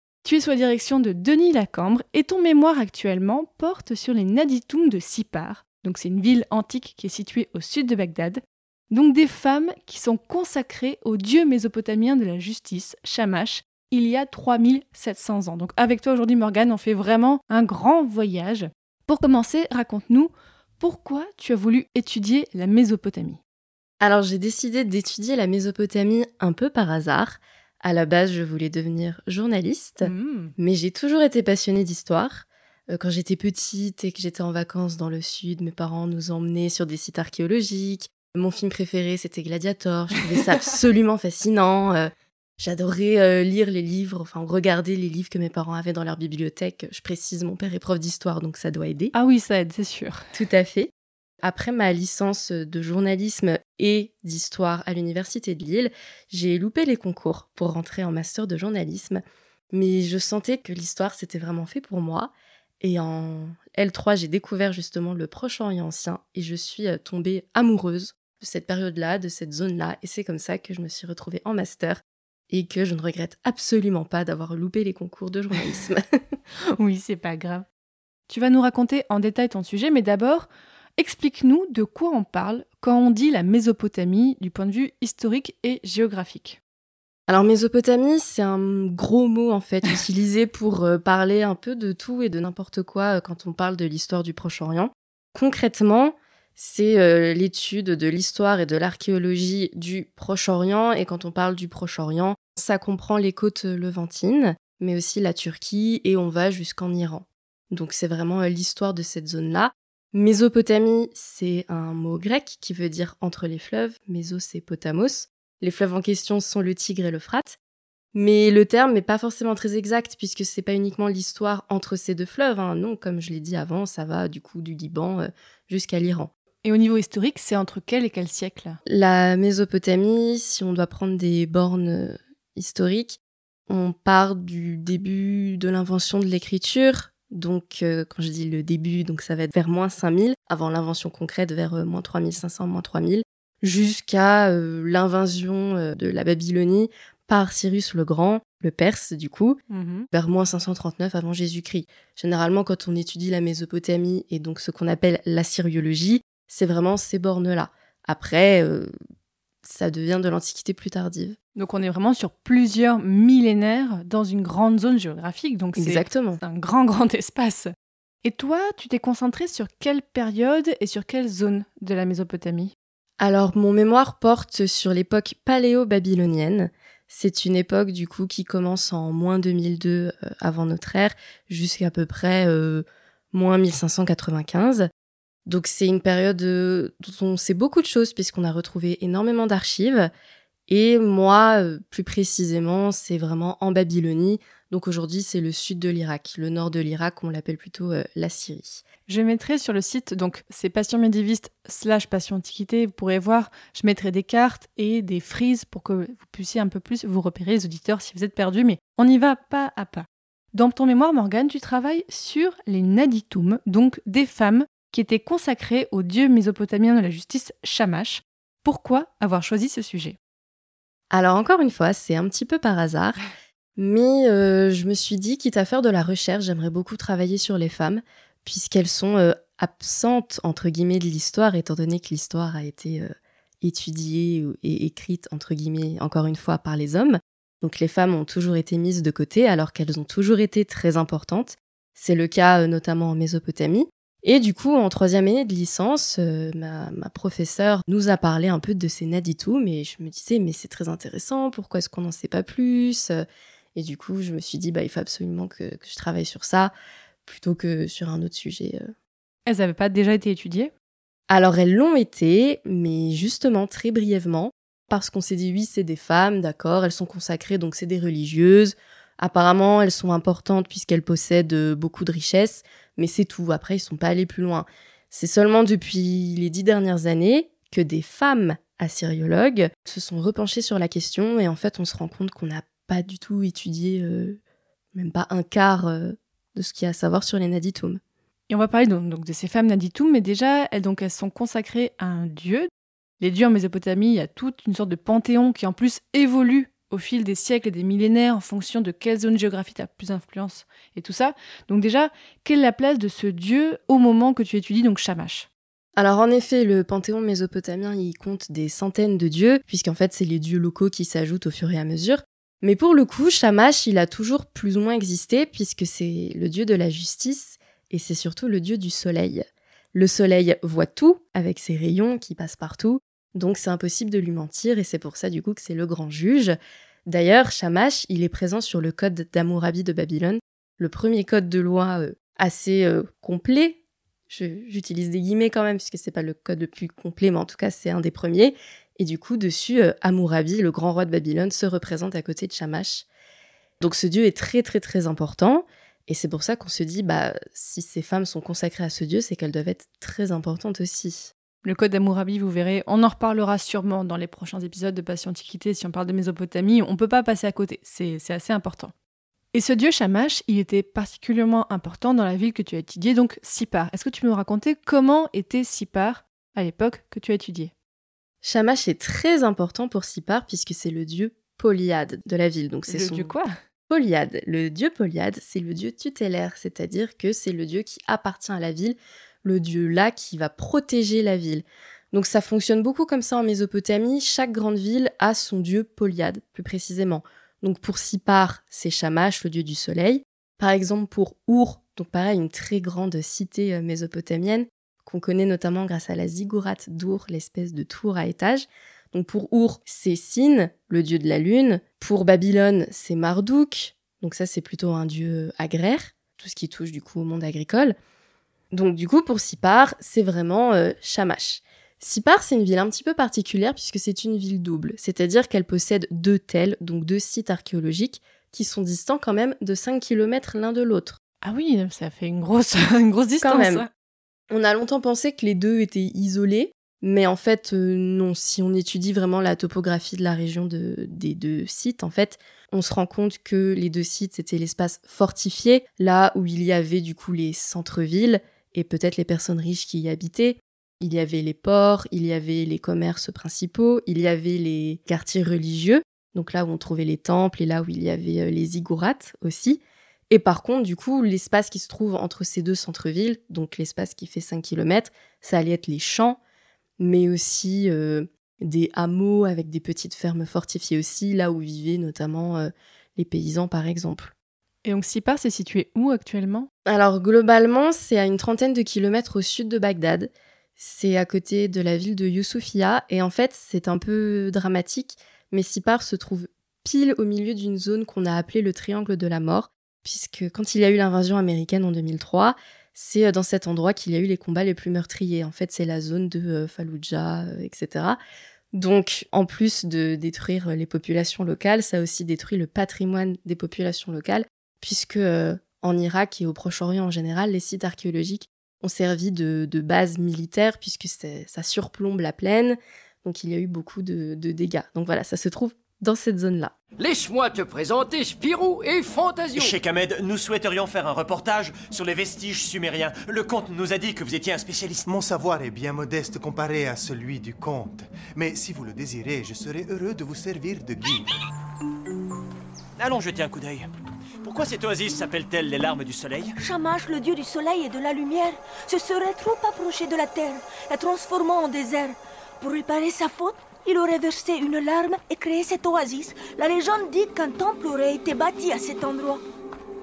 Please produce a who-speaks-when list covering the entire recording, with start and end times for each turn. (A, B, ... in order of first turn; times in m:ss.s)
0:00.2-0:23.4 A
0:24.0-0:49.1 B
0:30.0-0:30.5 A
0:49.1-0:50.2 A
0:50.3-0:50.9 B
0:51.4-1:16.0 B
1:16.8-1:17.6 A
1:18.3-1:26.6 A
1:27.3-1:57.6 B
1:58.1-2:06.3 B
2:06.6-2:08.8 A
2:08.8-2:29.6 B
2:29.7-2:30.1 A
2:30.1-2:38.9 B
2:39.6-2:41.4 B
2:41.6-2:47.7 A
2:45.8-2:46.4 B
2:48.2-2:52.7 A
2:53.2-3:04.9 B
3:05.4-3:10.1 B
3:10.7-3:18.8 B
3:19.1-3:40.2 A
3:41.1-3:43.2 B
3:43.8-4:16.7 B
4:17.2-4:18.9 B
4:19.4-4:20.7 A
4:21.3-4:44.4 B
4:44.9-4:48.0 B
4:48.5-5:05.5 A
5:06.0-5:33.8 B
5:34.3-5:43.0 B
5:43.8-5:51.3 B
5:51.6-5:58.9 A
5:59.5-6:07.7 A
6:08.4-6:13.3 B
6:12.9-6:13.5 A
6:13.9-6:48.0 B
6:48.7-7:01.2 B
7:01.4-7:03.9 A
7:03.4-7:03.9 B
7:04.5-7:36.4 B
7:37.0-7:44.3 B
7:44.8-7:46.7 A
7:46.8-8:08.2 B
8:08.7-8:26.7 B
8:27.0-8:29.7 C
8:29.5-8:35.1 D
8:35.0-8:41.3 E
8:43.0-8:43.9 D
8:44.4-8:46.6 D
8:46.6-8:59.4 F